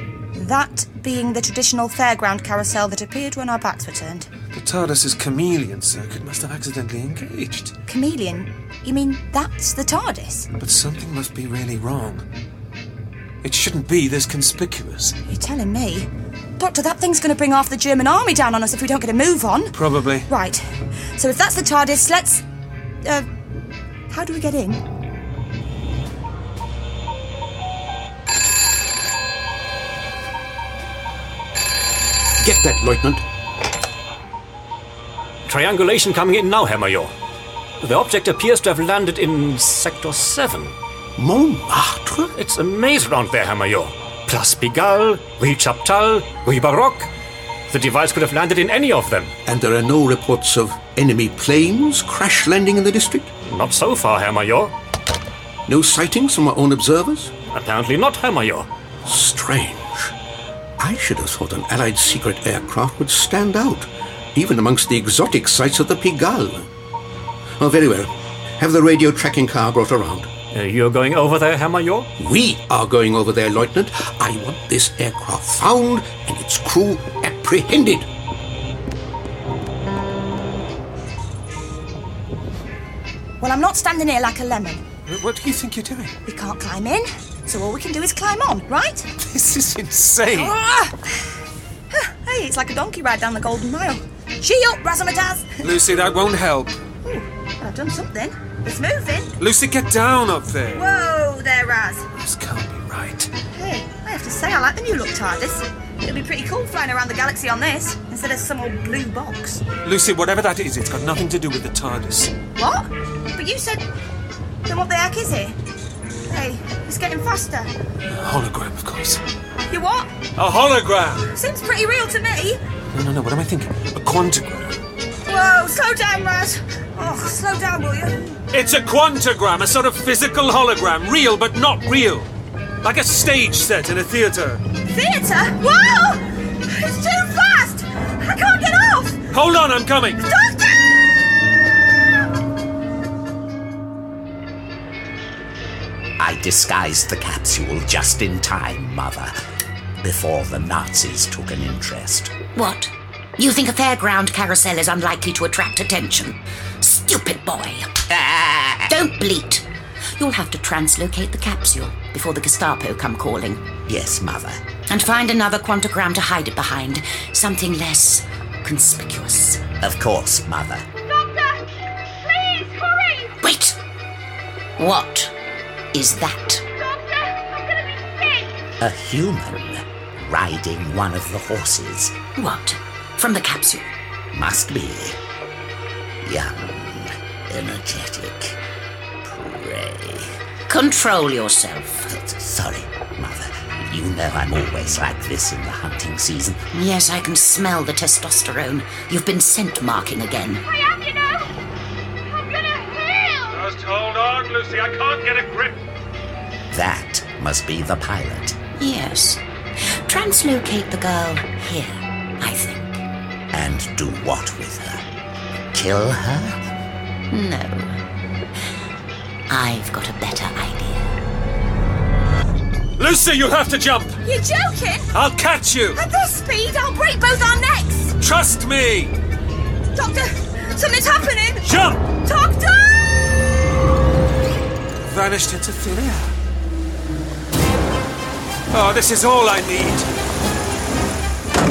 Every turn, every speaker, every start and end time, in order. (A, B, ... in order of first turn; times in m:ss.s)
0:00.3-0:04.3 A
0:04.5-0:07.8 B
0:07.8-0:10.5 A
0:10.6-0:12.2 B
0:13.4-0:15.2 B
0:15.3-0:19.8 A
0:19.7-0:20.3 B
0:20.3-0:20.6 A
0:21.1-0:22.4 A
0:23.0-0:23.3 A
0:24.1-0:24.8 A
0:32.4-0:33.2 C
0:35.4-0:37.1 D
0:37.8-0:40.8 D
0:41.2-0:42.3 C
0:42.4-0:47.1 D
0:47.7-0:49.3 D
0:49.4-0:53.3 C
0:53.5-0:54.8 D
0:55.7-0:57.3 C
0:57.5-0:58.7 D
0:59.0-1:00.1 C
1:00.8-1:06.7 C
1:07.6-1:10.3 C
1:10.5-1:12.1 D
1:12.2-1:18.1 C
1:23.4-1:24.8 A
1:25.1-1:26.1 B
1:26.2-1:29.1 A
1:29.2-1:30.7 B
1:30.3-1:31.2 A
1:31.9-1:35.6 A
1:35.6-1:36.8 B
1:37.0-1:39.4 A
1:39.4-1:40.8 B
1:40.7-1:42.1 A
1:42.2-1:43.3 B
1:43.5-1:49.6 A
1:49.8-1:52.3 B
1:52.6-1:53.8 A
1:54.6-1:55.6 A
1:56.3-1:57.7 A
1:58.1-1:59.2 B
1:59.7-2:00.1 A
2:00.4-2:01.3 B
2:01.3-2:02.6 A
2:02.9-2:04.8 B
2:05.2-2:08.4 A
2:08.5-2:12.3 B
2:12.8-2:14.6 B
2:14.8-2:19.3 A
2:19.3-2:20.2 B
2:20.2-2:20.8 A
2:26.2-2:29.3 E
2:30.0-2:32.3 E
2:32.6-2:38.0 F
2:38.1-2:39.0 E
2:38.9-2:39.6 F
2:40.2-2:43.6 F
2:43.8-2:44.6 E
2:44.9-2:49.7 F
2:49.8-2:50.9 E
2:51.1-2:51.6 G
2:52.3-2:53.3 G
2:53.4-2:53.8 F
2:54.8-2:55.3 F
2:55.9-2:56.6 F
2:56.9-2:57.2 G
2:58.8-3:02.2 E
3:02.4-3:03.9 F
3:04.3-3:05.2 E
3:06.2-3:08.6 E
3:09.2-3:10.4 E
3:10.7-3:12.1 F
3:12.1-3:16.6 E
3:16.7-3:20.6 F
3:20.9-3:21.3 G
3:22.8-3:23.2 G
3:23.5-3:25.8 B
3:26.7-3:28.6 E
3:28.8-3:33.0 F
3:33.5-3:35.0 E
3:35.7-3:36.6 E
3:37.3-3:38.0 F
3:39.5-3:41.1 F
3:43.0-3:44.2 B
3:44.2-3:45.1 A
3:45.1-3:46.0 B
3:45.9-3:48.2 A
3:48.2-3:49.1 B
3:49.9-3:51.7 A
3:51.6-3:52.0 B
3:52.2-3:53.2 A
3:55.0-3:56.3 B
3:58.7-4:00.1 B